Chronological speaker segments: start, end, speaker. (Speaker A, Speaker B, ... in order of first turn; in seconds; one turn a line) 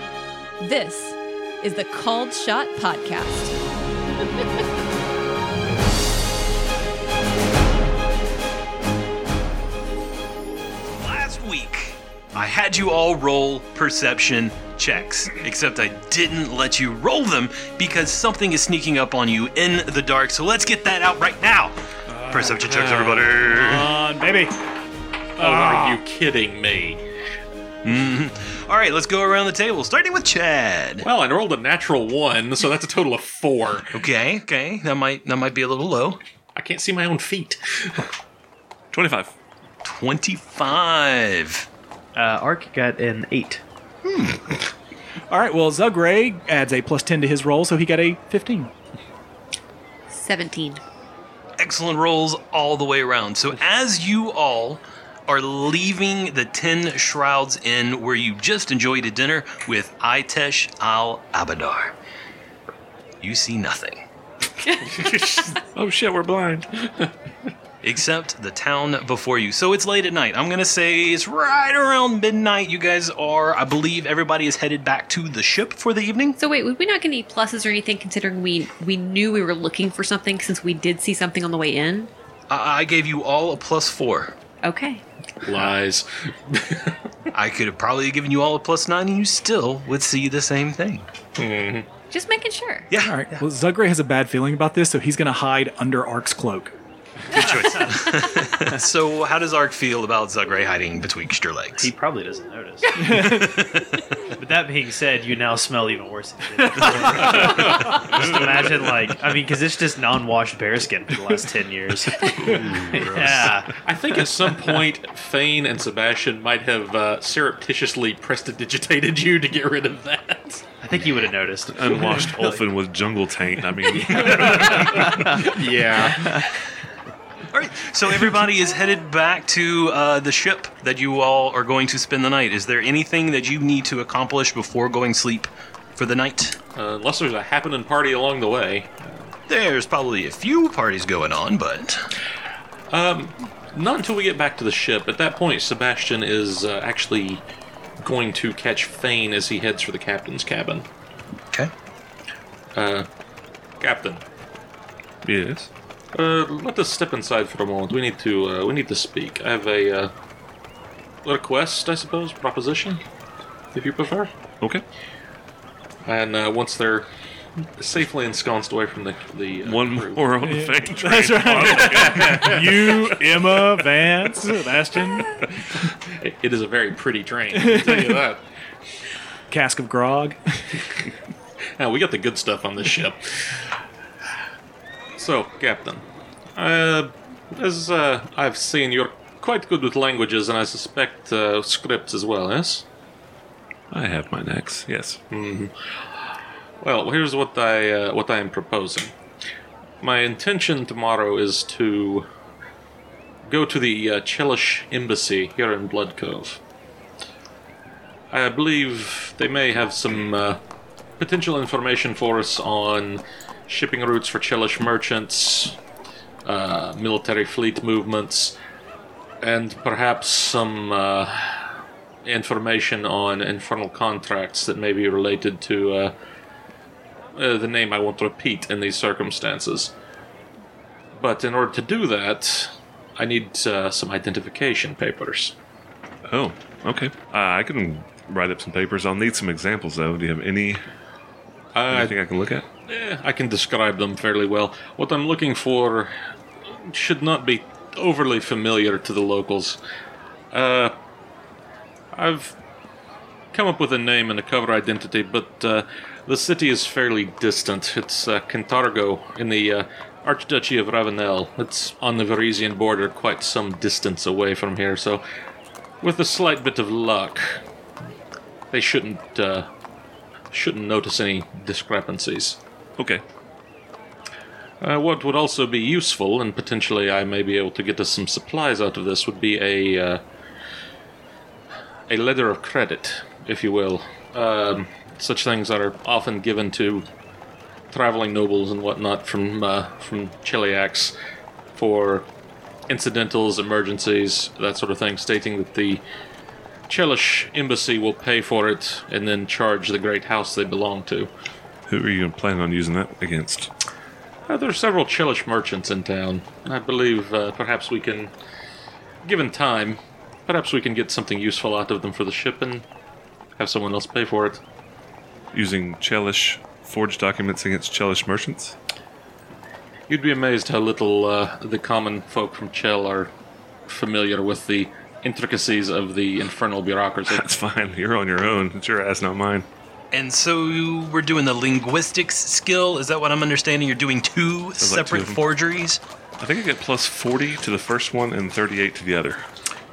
Speaker A: 0.6-3.5
Speaker B: 10.9-21.7
Speaker C: 22.1-24.6
Speaker B: 22.3-24.0
Speaker D: 25.4-27.0
Speaker C: 25.4-26.0
Speaker B: 27.8-31.1
Speaker D: 31.0-33.9
Speaker B: 33.9-36.2
Speaker D: 36.5-38.1
Speaker E: 38.9-39.3
Speaker B: 39.8-41.7
Speaker F: 42.1-43.6
Speaker C: 45.3-48.7
Speaker A: 50.1-50.8
Speaker B: 51.6-61.9
Speaker B: 63.2-64.0
Speaker D: 64.9-65.5
Speaker E: 65.5-66.9
Speaker B: 67.8-76.4
Speaker A: 76.4-82.1
Speaker B: 82.5-84.3
Speaker A: 84.6-85.0
Speaker D: 85.4-87.0
Speaker B: 87.3-91.0
Speaker D: 91.3-91.9
Speaker A: 92.1-92.9
Speaker B: 92.9-93.3
Speaker C: 93.0-96.7
Speaker B: 97.3-101.9
Speaker F: 101.8-103.4
Speaker C: 103.0-103.6
Speaker B: 103.3-103.9
Speaker F: 104.4-113.7
Speaker E: 112.5-113.4
Speaker B: 112.5-112.8
Speaker D: 113.5-120.7
Speaker F: 120.8-122.6
Speaker E: 121.7-125.6
Speaker F: 124.0-126.5
Speaker D: 125.6-126.2
Speaker B: 127.5-136.6
Speaker D: 136.7-139.3
Speaker B: 139.5-142.1
Speaker D: 142.9-147.4
Speaker D: 148.0-150.8
Speaker D: 152.7-153.1
Speaker D: 153.8-154.2
Speaker E: 155.2-155.7
Speaker D: 156.1-160.1
Speaker D: 161.2-163.0
Speaker D: 163.7-164.3
Speaker D: 166.1-167.1
Speaker D: 167.8-170.3
Speaker E: 169.6-173.8
Speaker C: 170.4-175.4
Speaker D: 171.6-172.9
Speaker D: 176.0-178.4
Speaker C: 177.6-178.2
Speaker C: 179.5-180.8
Speaker D: 181.8-183.7
Speaker D: 185.2-192.8
Speaker E: 193.9-195.2
Speaker D: 195.3-195.7
Speaker D: 196.8-199.1
Speaker D: 200.0-202.3
Speaker D: 203.4-206.6
Speaker D: 208.3-210.6
Speaker D: 211.2-215.8
Speaker D: 216.4-218.6
Speaker D: 219.4-226.1
Speaker D: 227.3-229.9
Speaker D: 231.1-235.6
Speaker E: 236.3-240.8
Speaker D: 241.7-242.2
Speaker E: 241.9-242.7
Speaker D: 242.9-249.8
Speaker D: 250.5-250.9
Speaker D: 252.1-252.6
Speaker D: 253.5-265.2
Speaker D: 266.0-267.6
Speaker D: 268.7-269.7
Speaker D: 270.5-272.6
Speaker E: 273.0-273.2
Speaker D: 274.8-280.2
Speaker D: 282.1-287.1
Speaker D: 287.9-291.1
Speaker D: 291.7-292.3
Speaker D: 292.9-296.0
Speaker D: 296.9-301.3
Speaker E: 301.9-303.7
Speaker D: 304.5-308.3
Speaker D: 309.2-312.8
Speaker D: 313.6-314.6
Speaker E: 315.5-318.7
Speaker D: 320.1-323.3
Speaker D: 323.9-327.5
Speaker E: 327.3-329.7
Speaker B: 330.1-336.0
Speaker E: 334.8-335.4
Speaker E: 336.4-339.4